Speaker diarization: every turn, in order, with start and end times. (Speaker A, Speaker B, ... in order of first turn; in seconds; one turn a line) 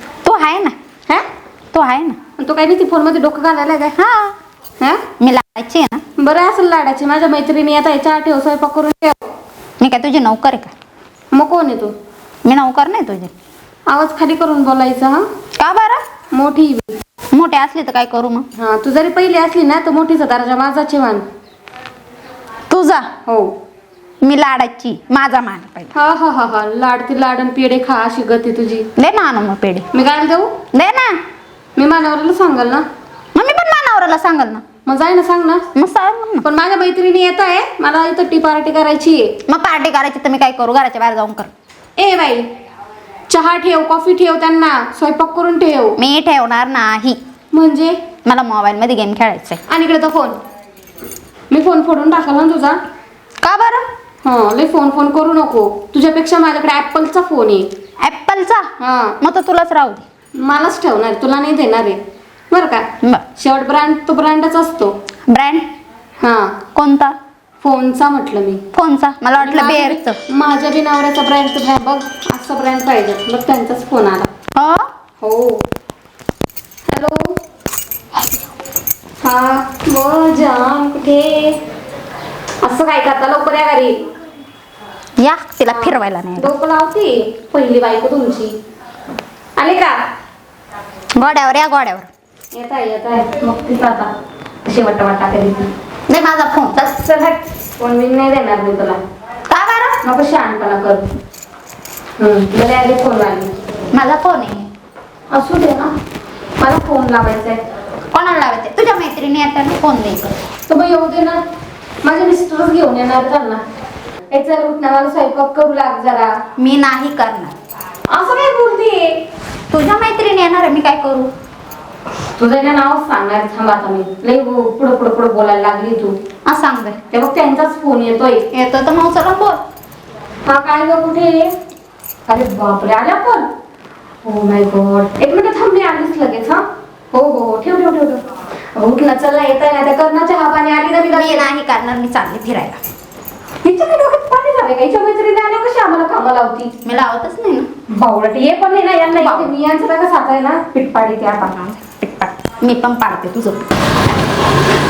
Speaker A: 0.2-0.8
Speaker A: 1.7-2.2
Speaker B: 2.4-4.0
Speaker A: 4.0-4.3
Speaker A: 5.2-6.0
Speaker B: 6.2-9.2
Speaker A: 9.8-10.7
Speaker B: 11.3-11.9
Speaker A: 12.4-13.3
Speaker B: 13.9-15.2
Speaker A: 15.6-16.1
Speaker B: 16.3-17.0
Speaker A: 17.3-18.5
Speaker B: 18.6-21.3
Speaker A: 22.7-23.1
Speaker A: 24.2-25.9
Speaker B: 25.9-28.9
Speaker A: 29.0-29.9
Speaker B: 29.9-30.5
Speaker A: 30.7-31.2
Speaker B: 31.8-32.8
Speaker A: 33.3-34.6
Speaker B: 34.9-35.6
Speaker A: 35.7-36.4
Speaker B: 36.4-39.3
Speaker A: 39.5-41.5
Speaker B: 42.0-42.5
Speaker B: 43.3-46.0
Speaker A: 46.0-47.2
Speaker B: 47.5-48.0
Speaker A: 48.2-49.6
Speaker B: 49.7-50.4
Speaker B: 51.5-52.8
Speaker A: 53.4-53.9
Speaker B: 54.2-57.7
Speaker A: 58.0-58.7
Speaker B: 58.8-59.1
Speaker A: 59.2-60.0
Speaker B: 60.4-62.0
Speaker B: 62.5-64.9
Speaker A: 65.3-65.7
Speaker B: 66.2-66.5
Speaker A: 66.7-67.2
Speaker B: 67.6-68.6
Speaker A: 68.7-70.2
Speaker B: 69.4-74.3
Speaker A: 74.5-74.9
Speaker B: 75.2-75.6
Speaker B: 76.9-77.3
Speaker B: 79.2-81.6
Speaker B: 82.6-83.9
Speaker A: 85.2-86.5
Speaker B: 85.7-88.5
Speaker B: 89.6-89.9
Speaker A: 91.1-92.1
Speaker B: 92.5-94.1
Speaker B: 94.7-95.7
Speaker A: 96.1-97.0
Speaker B: 96.9-99.0
Speaker A: 99.5-100.0
Speaker B: 100.0-101.1
Speaker B: 102.2-103.5
Speaker A: 103.9-104.7
Speaker B: 105.3-105.9
Speaker B: 106.6-107.6
Speaker A: 108.1-110.4
Speaker B: 110.7-111.4
Speaker B: 112.0-113.6
Speaker B: 114.3-116.3
Speaker A: 116.6-117.5
Speaker B: 118.1-119.1
Speaker A: 119.7-121.3
Speaker B: 122.4-126.1
Speaker A: 126.5-127.0
Speaker B: 127.1-128.4
Speaker A: 128.5-129.6
Speaker B: 130.5-131.5
Speaker B: 132.3-133.5
Speaker B: 134.2-138.2
Speaker B: 138.8-141.5
Speaker A: 141.1-142.8
Speaker B: 143.6-146.7
Speaker A: 146.8-147.7
Speaker B: 147.9-151.5
Speaker A: 149.1-149.5
Speaker A: 151.5-153.7